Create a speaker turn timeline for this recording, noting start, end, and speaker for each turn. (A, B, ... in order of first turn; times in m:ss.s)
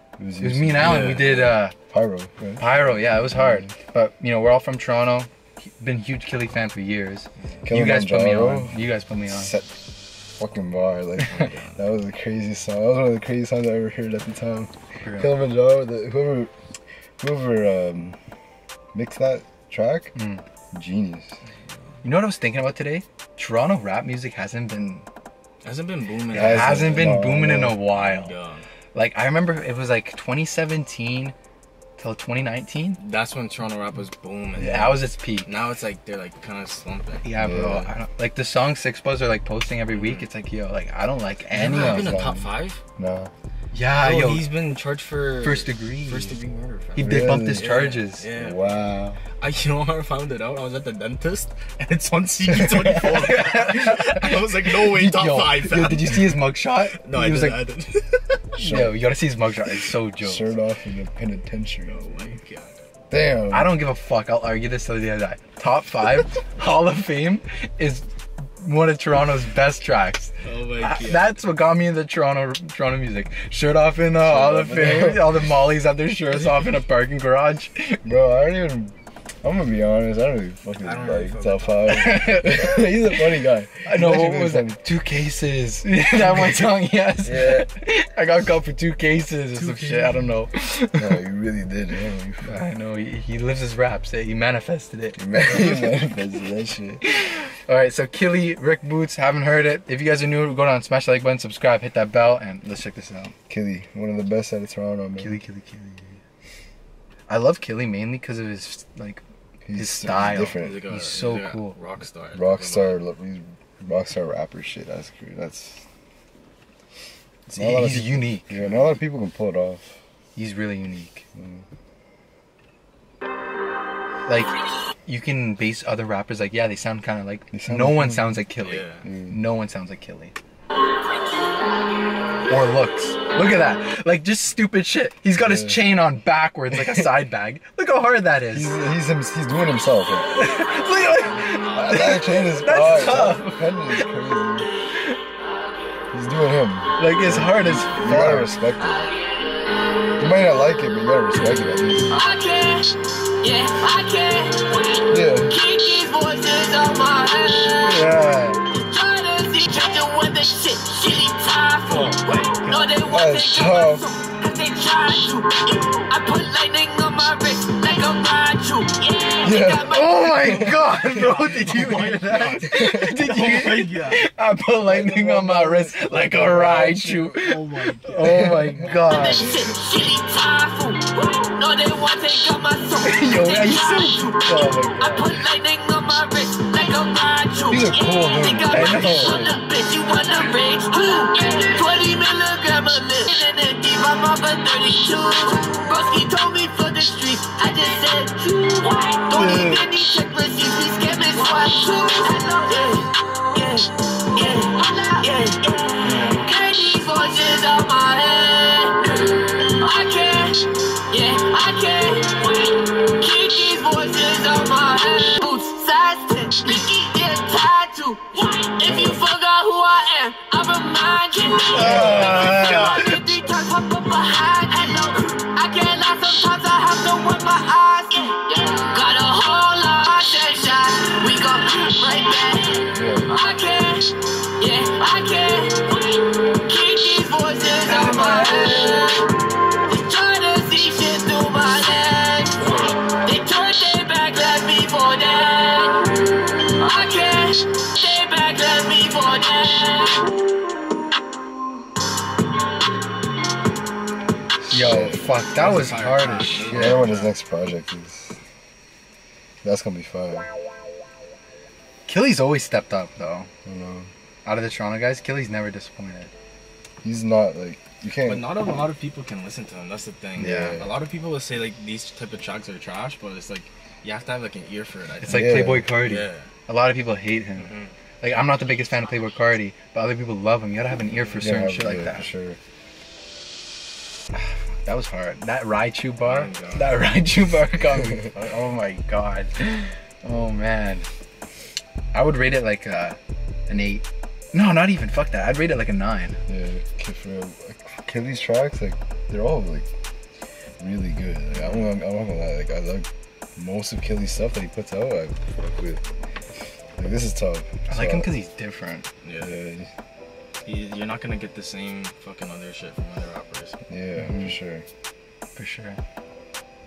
0:00.2-0:03.7 A
0:00.4-0:01.7 B
0:00.8-0:01.6 C
0:02.6-0:09.5 B
0:07.6-0:09.8 A
0:10.4-0:16.5 A
0:11.3-0:11.8 C
0:15.0-0:15.4 B
0:17.2-0:18.2 A
0:18.9-0:20.1 A
0:20.1-0:20.4 B
0:20.7-0:21.4 A
0:22.0-0:25.0 B
0:25.6-0:27.1 C
0:26.3-0:28.3 B
0:26.3-0:27.8 A
0:27.9-0:28.7 C
0:28.9-0:31.3 B
0:32.0-0:33.0 B
0:33.0-0:37.2 C
0:34.6-0:35.5 B
0:37.2-0:42.2 B
0:37.4-0:37.9 A
0:39.9-0:40.3 C
0:41.5-0:42.8 C
0:41.5-0:43.3 A
0:43.7-0:44.5 B
0:44.0-0:48.9 C
0:45.4-0:46.4 B
0:46.9-0:48.3 B
0:47.0-0:47.7 A
0:48.3-0:49.2 A
0:49.4-0:58.4 C
0:52.8-0:57.7 B
0:58.6-1:00.5 B
0:58.6-0:59.0 A
1:00.2-1:02.3 A
1:01.8-1:02.8 C
1:03.1-1:03.7 A
1:03.5-1:08.0 B
1:08.6-1:18.0 B
1:10.4-1:11.4 C
1:14.2-1:15.4 A
1:18.0-1:24.8 A
1:20.8-1:22.4 C
1:21.9-1:23.3 B
1:23.8-1:31.1 B
1:26.4-1:26.6 A
1:27.2-1:27.7 A
1:29.6-1:30.3 C
1:30.9-1:32.6 A
1:32.4-1:36.2 B
1:35.2-1:37.0 A
1:37.0-1:43.3 B
1:43.5-1:45.4 A
1:45.2-1:46.2 B
1:47.3-1:49.2 B
1:49.6-1:50.9 A
1:49.7-1:51.8 B
1:50.4-1:53.0 C
1:52.3-1:55.8 A
1:57.5-1:59.9 A
1:57.5-1:58.4 B
1:58.5-1:59.0 C
2:00.4-2:01.2 B
2:01.3-2:01.6 A
2:04.2-2:10.3 B
2:07.5-2:08.4 A
2:08.6-2:09.1 C
2:09.0-2:09.4 A
2:12.5-2:18.8 B
2:15.4-2:15.9 A
2:16.7-2:17.1 A
2:18.5-2:20.3 A
2:20.3-2:24.1 B
2:21.7-2:24.7 A
2:26.1-2:29.1 A
2:27.0-2:28.5 B
2:30.2-2:32.1 A
2:32.1-2:50.0 D
2:35.1-2:35.6 A
2:37.8-2:38.6 B
2:41.9-2:42.9 C
2:43.0-2:44.1 A
2:49.4-2:51.3 A
2:49.8-2:59.6 B
2:51.3-2:52.6 C
2:52.5-2:53.4 A
2:53.2-2:54.2 C
2:54.8-2:57.4 A
2:57.4-2:58.4 C
2:58.2-2:59.7 A
2:59.0-4:10.4 D
3:03.0-3:04.9 B
3:04.4-3:05.4 A
3:07.7-3:09.6 A
3:08.7-3:09.5 B
3:19.3-3:19.8 B
3:38.8-3:39.2 A
3:41.7-3:43.2 B
3:41.7-3:43.0 C
3:52.9-3:53.3 A
3:57.8-3:59.1 B
4:14.6-4:15.3 A
4:14.7-4:17.1 B
4:15.5-4:17.4 C
4:16.7-4:18.4 A
4:19.6-4:20.5 A
4:22.1-4:23.5 B
4:23.6-4:24.1 A
4:24.4-4:26.3 B
4:27.0-4:28.5 A
4:28.2-4:35.5 C
4:30.4-4:30.8 A
4:30.4-4:30.9 B
4:35.2-4:42.3 B
4:35.3-4:35.9 A
4:36.0-4:36.5 C
4:37.6-4:37.9 C
4:41.1-4:41.4 C
4:41.4-4:42.6 A
4:44.3-4:51.1 B
4:46.2-4:47.0 C
4:52.1-4:56.4 B
4:56.5-4:59.8 A
5:00.8-5:06.0 A
5:07.0-5:08.3 A
5:07.9-5:09.0 B
5:09.2-5:09.5 C
5:09.4-5:09.9 A
5:10.6-5:13.8 C
5:13.9-5:14.8 A
5:14.2-5:14.6 B
5:15.6-5:16.0 B